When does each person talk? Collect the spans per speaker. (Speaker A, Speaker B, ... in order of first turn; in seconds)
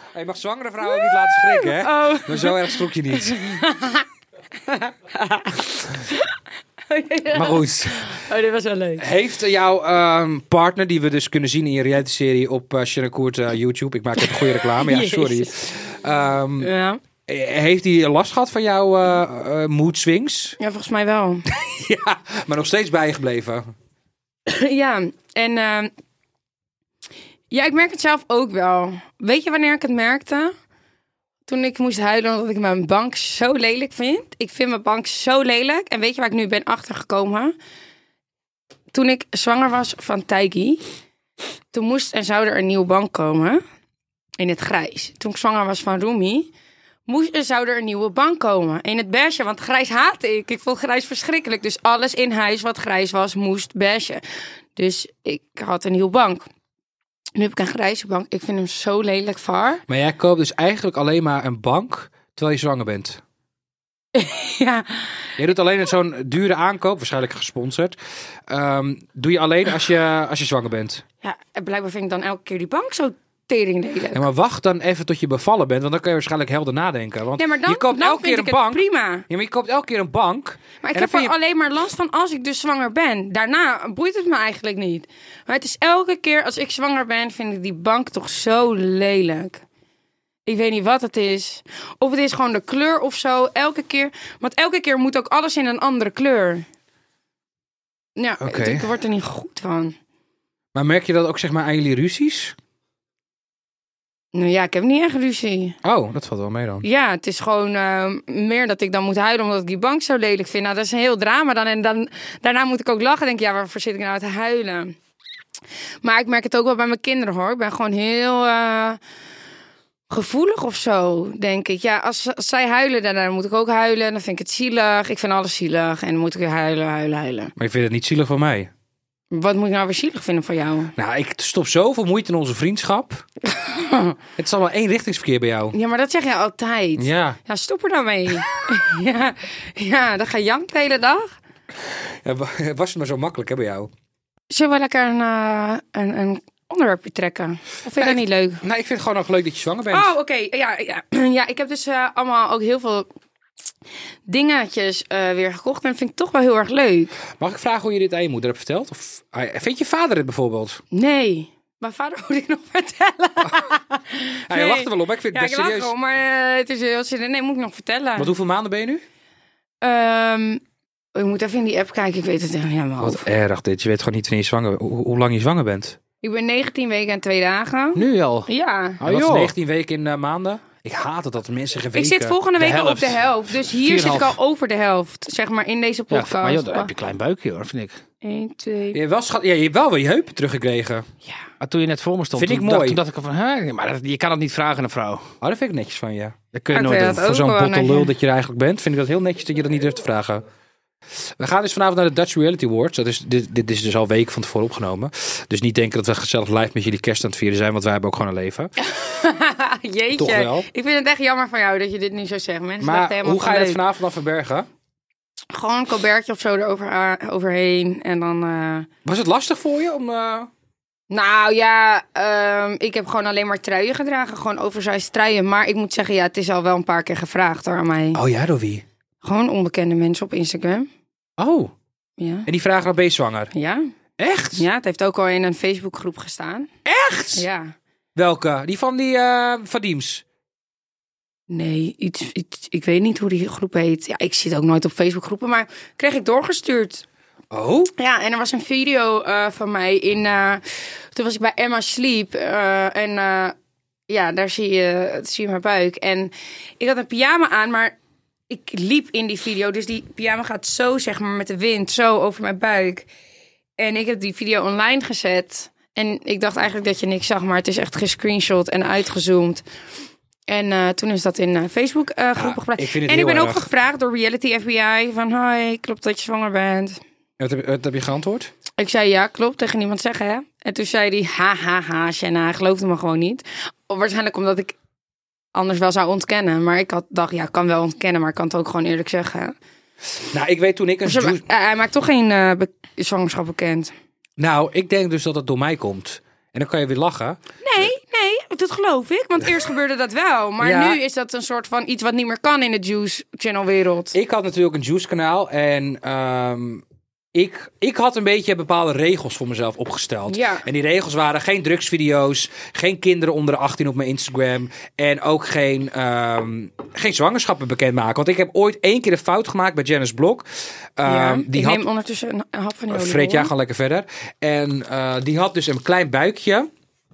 Speaker A: 0.1-3.6, 7.3-8.2, 9.0-16.7, 17.2-20.6, 21.5-23.7, 59.9-63.2, 65.4-68.0, 68.5-71.0, 74.1-81.3, 98.4-98.9, 100.7-102.5, 105.8-106.8, 127.6-128.7, 130.9-133.2, 134.4-135.7, 137.0-137.4, 141.8-143.9, 148.0-150.1, 157.4-160.8, 163.4-163.7, 164.5-165.9, 168.2-169.0, 173.0-176.0, 179.0-182.4, 188.9-191.1, 192.3-193.0, 195.4-200.4, 201.4-208.7, 210.2-210.7, 212.8-214.7, 219.0-220.5, 228.1-228.8, 231.4-231.7, 232.4-233.5, 234.2-234.6, 236.8-237.4, 238.1-240.2, 247.5-247.9, 272.4-273.7, 277.4-278.5, 290.3-291.4, 294.4-297.4, 300.6-301.0, 304.1-306.8, 307.3-320.4, 321.0-321.9, 322.9-326.7
Speaker B: 0.8-4.1, 4.7-6.3, 6.9-9.1, 14.2-15.6, 16.6-17.0, 20.6-21.4, 24.5-25.9, 27.5-30.5, 31.5-37.5, 38.9-40.8, 41.7-43.6, 44.4-46.5, 47.1-54.2, 54.8-56.5, 57.4-59.8, 64.1-65.2, 71.2-74.2, 77.4-79.2, 80.8-89.6, 90.5-96.6, 98.2-99.9, 104.3-105.8, 106.8-114.9, 116.0-119.0, 120.1-127.5, 129.3-130.9, 133.5-134.2, 135.7-141.4, 144.5-148.6, 149.9-153.1, 154.3-157.2, 160.9-168.3, 169.8-170.6, 171.1-173.2, 176.2-179.0, 181.9-186.9, 188.2-189.0, 196.7-198.1, 208.8-213.8, 215.5-218.9, 221.1-228.2, 229.2-230.9, 232.2-232.5, 233.5-233.9, 234.5-236.7, 237.3-237.7, 241.5-247.0, 247.9-253.6, 254.1-257.9, 258.5-263.1, 263.8-269.6, 270.5-277.0, 278.8-284.7, 285.5-289.6, 291.0-293.9, 297.6-304.1, 310.3-310.6, 321.0-323.5
Speaker C: 177.9-178.5, 179.0-179.5, 182.6-184.3, 186.1-188.0, 191.6-195.3, 196.5-197.2